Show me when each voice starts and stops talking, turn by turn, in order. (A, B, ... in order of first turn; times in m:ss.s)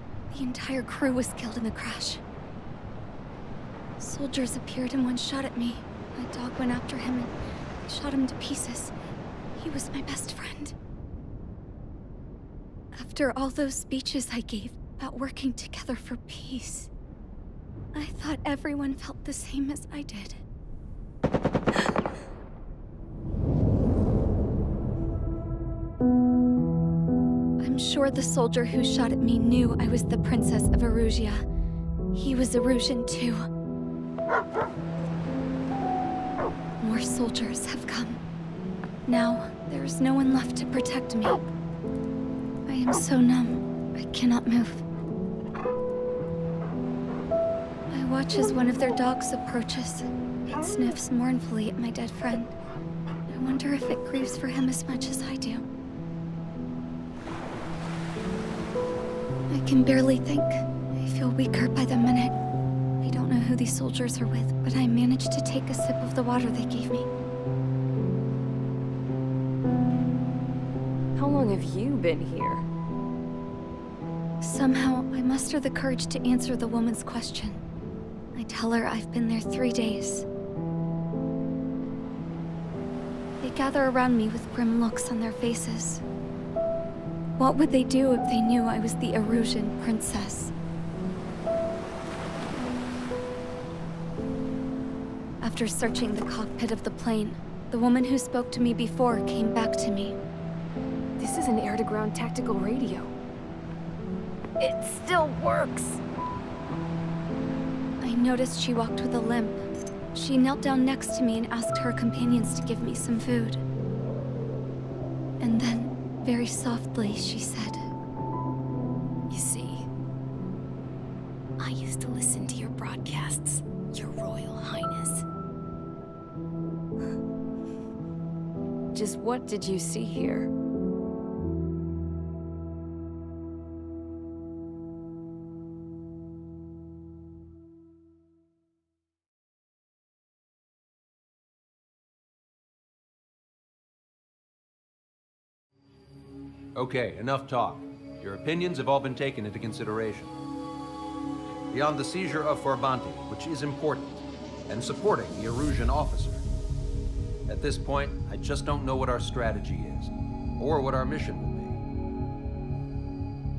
0:00.3-0:02.2 A
0:04.0-0:07.3 A
0:07.9-0:08.9 A
0:09.6-0:10.7 A
0:12.9-0:16.9 A
0:17.9-0:20.4 A
0:27.6-0:31.4 A
0:32.1-0:33.4 A
0:36.8-0:38.2 A
0:39.0-0:41.4 A
0:42.7-0:44.8 A
0:47.9-0:52.5 A
0:53.3-0:55.6 A
0:59.5-1:02.3 A
1:03.0-1:07.1 A
1:11.2-1:12.7 B
1:14.4-1:17.6 A
1:18.3-1:20.2 A
1:23.4-1:26.0 A
1:27.4-1:30.5 A
1:35.4-1:40.2 A
1:41.2-1:43.1 B
1:44.6-1:46.0 B
1:48.0-1:49.6 A
1:50.1-1:53.6 A
1:55.4-1:57.8 A
1:59.3-1:59.9 B
2:01.6-2:05.2 B
2:08.9-2:10.5 B
2:26.7-2:30.4 C
2:31.7-2:34.2 C
2:34.7-2:36.4 C
2:37.5-2:41.8 C